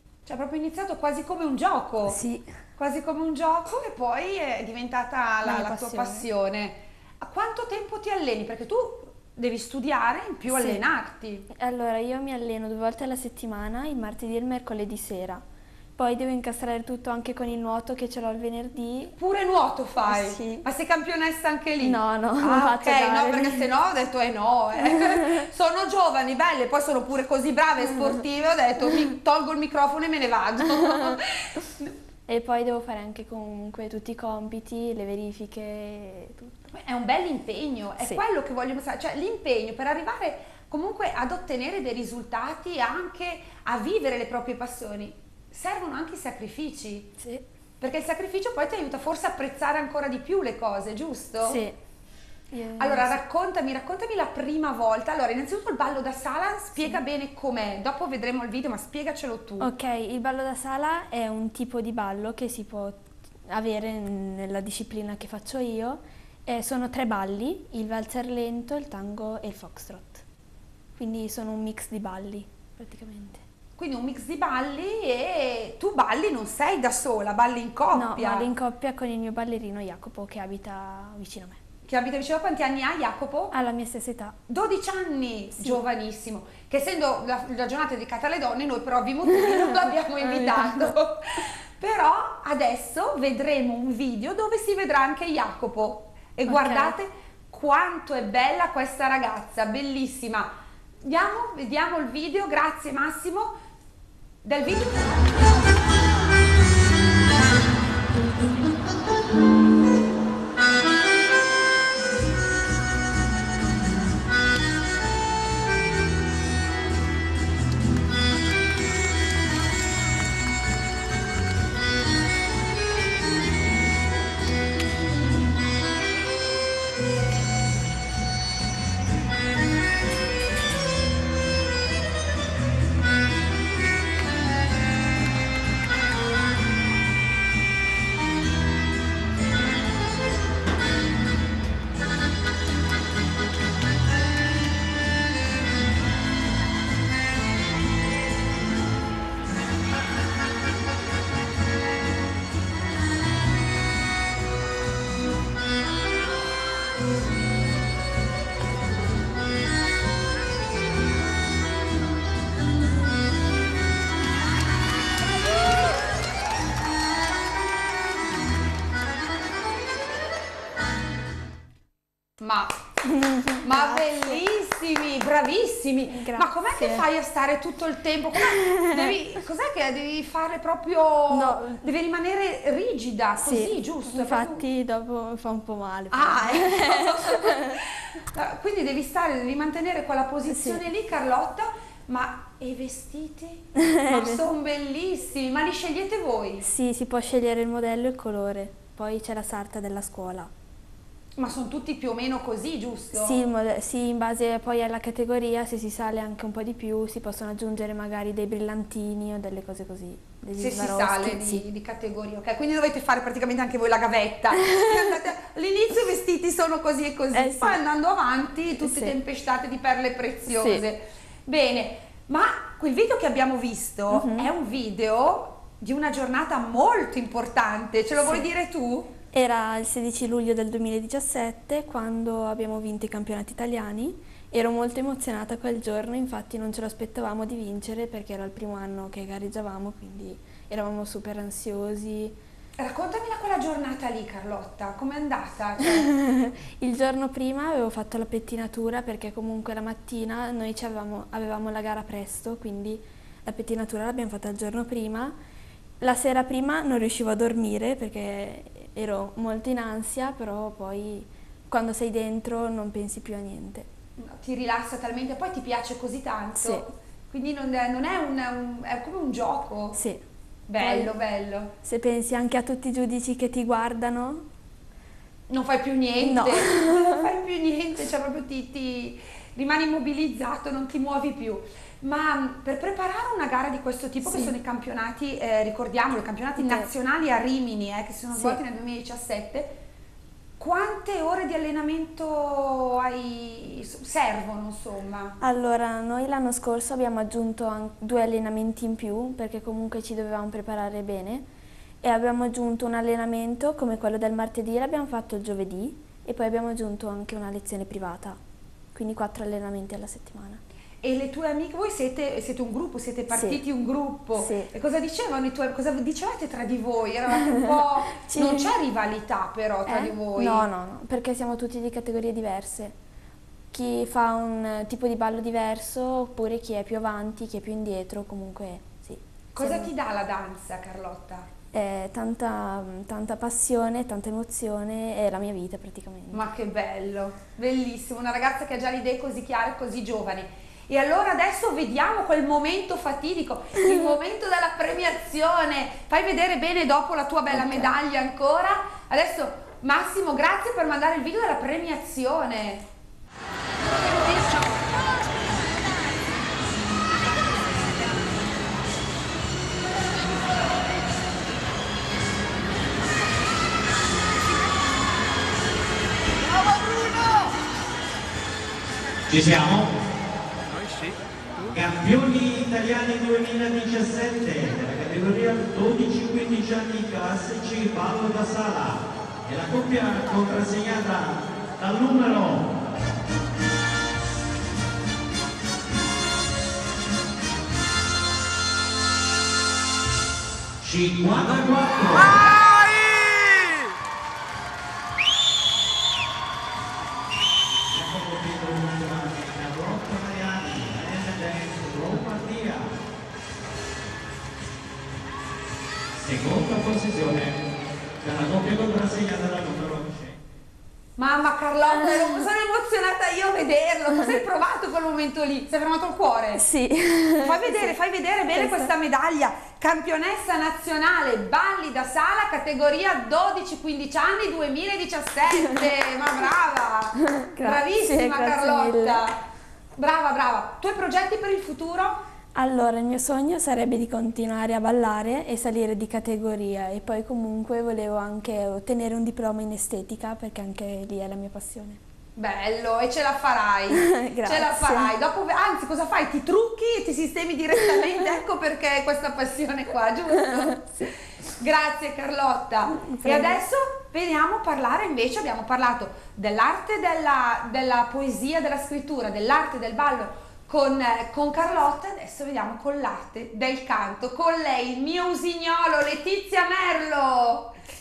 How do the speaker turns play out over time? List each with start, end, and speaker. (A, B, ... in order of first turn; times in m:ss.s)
0:00.2-0:02.2 A
0:02.1-0:02.5 B
0:02.8-0:11.5 A
0:05.4-0:06.3 B
0:10.5-0:10.8 B
0:11.5-0:15.4 B
0:16.0-0:19.1 B
0:19.2-0:31.9 A
0:20.1-0:20.6 B
0:21.8-0:23.7 B
0:24.8-0:25.5 B
0:30.7-0:31.2 B
0:32.3-0:36.6 B
0:36.7-0:47.1 A
0:47.8-0:51.6 A
0:51.4-0:51.8 B
0:52.5-0:53.2 B
0:52.8-0:59.7 A
0:59.6-1:10.2 B
1:11.0-1:13.4 B
1:13.8-1:18.5 A
1:17.9-1:21.6 B
1:21.9-1:23.5 A
1:23.5-1:24.4 B
1:24.5-1:43.6 A
1:25.5-1:25.8 B
1:29.5-1:30.9 B
1:36.5-1:36.9 B
1:44.4-1:45.6 A
2:52.4-2:52.7 A
2:53.0-2:54.4 B
2:53.6-3:04.6 A
2:56.1-2:57.0 B
2:58.4-2:59.2 B
3:01.3-3:01.9 B
3:03.4-3:07.8 B
3:06.1-3:16.6 A
3:10.5-3:10.8 B
3:13.8-3:14.5 B
3:16.6-3:20.5 B
3:21.4-3:23.4 A
3:23.1-3:31.6 B
3:30.6-3:49.1 A
3:34.6-3:34.9 B
3:37.3-3:37.8 B
3:38.8-3:39.2 B
3:40.5-3:40.8 B
3:44.1-3:44.5 B
3:48.2-3:48.4 B
3:49.3-4:02.4 B
4:02.8-4:06.1 A
4:06.0-4:15.4 B
4:16.0-4:23.9 B
4:24.2-4:30.0 A
4:26.6-4:26.9 B
4:29.9-4:30.2 B
4:30.7-4:31.7 A
4:30.8-4:31.1 B
4:31.8-4:34.4 B
4:35.5-4:49.7 A
4:36.2-4:37.2 B
4:44.2-4:44.5 B
4:46.6-4:46.9 B
4:48.3-4:48.6 B
4:50.6-4:55.4 A
4:55.4-5:01.5 B
5:02.0-5:08.4 B
5:08.9-5:10.6 B
5:11.0-5:20.6 A
5:13.3-5:13.6 B
5:14.3-5:14.7 B
5:17.4-5:18.7 B
5:19.9-5:23.0 B
5:23.7-5:29.9 B
5:29.5-5:31.5 A
5:31.7-5:36.4 B
5:36.3-5:52.8 A
5:47.5-5:47.9 B
6:09.3-6:09.9 C
6:11.7-6:22.7 C
6:30.8-6:32.5 C
6:37.9-6:43.0 C
6:46.2-6:50.4 C
6:51.2-6:56.6 A
6:51.9-6:52.4 B
6:56.6-6:58.0 B
6:57.4-7:09.4 A
6:58.5-6:58.9 B
7:05.5-7:05.9 B
7:07.2-7:09.3 B
7:09.9-7:12.2 A
7:12.5-7:22.0 B
7:22.4-7:47.8 A
7:23.9-7:25.1 B
7:32.9-7:33.6 B